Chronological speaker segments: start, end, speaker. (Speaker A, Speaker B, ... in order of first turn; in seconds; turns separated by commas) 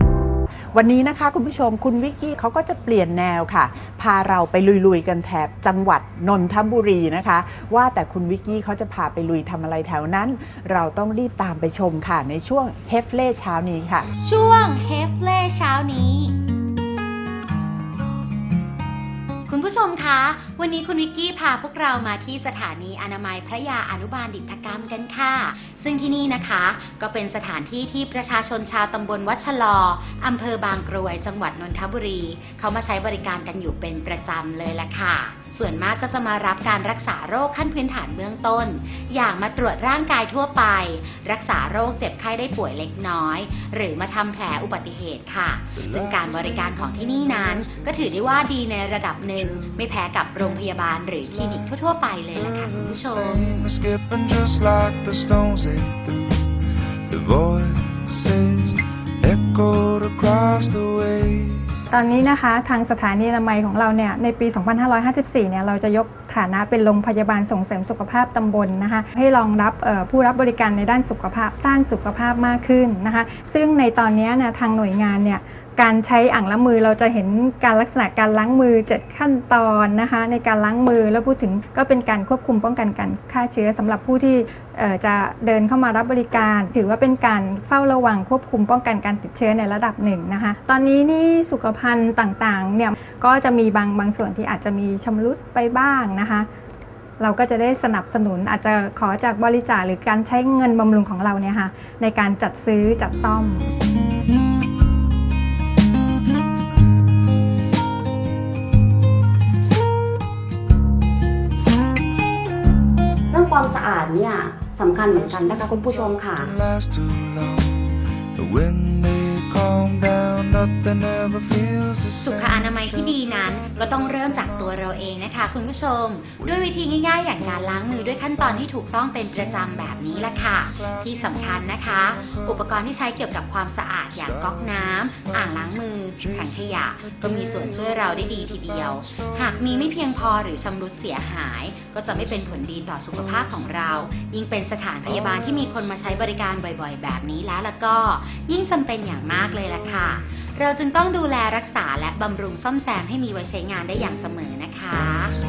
Speaker A: 0.7-14.1, Speaker B: 14.2-16.3, Speaker B: 19.5-53.7, Speaker C: 45.8-48.7, Speaker C: 49.3-49.8, Speaker C: 51.2-56.5, Speaker C: 57.1-61.7, Speaker D: 61.9-96.5, Speaker D: 97.2-103.7, Speaker E: 113.3-116.5, Speaker C: 115.1-125.1, Speaker B: 122.2-155.4, Speaker C: 126.4-133.1, Speaker C: 134.1-140.6, Speaker C: 142.2-143.7, Speaker C: 145.1-145.9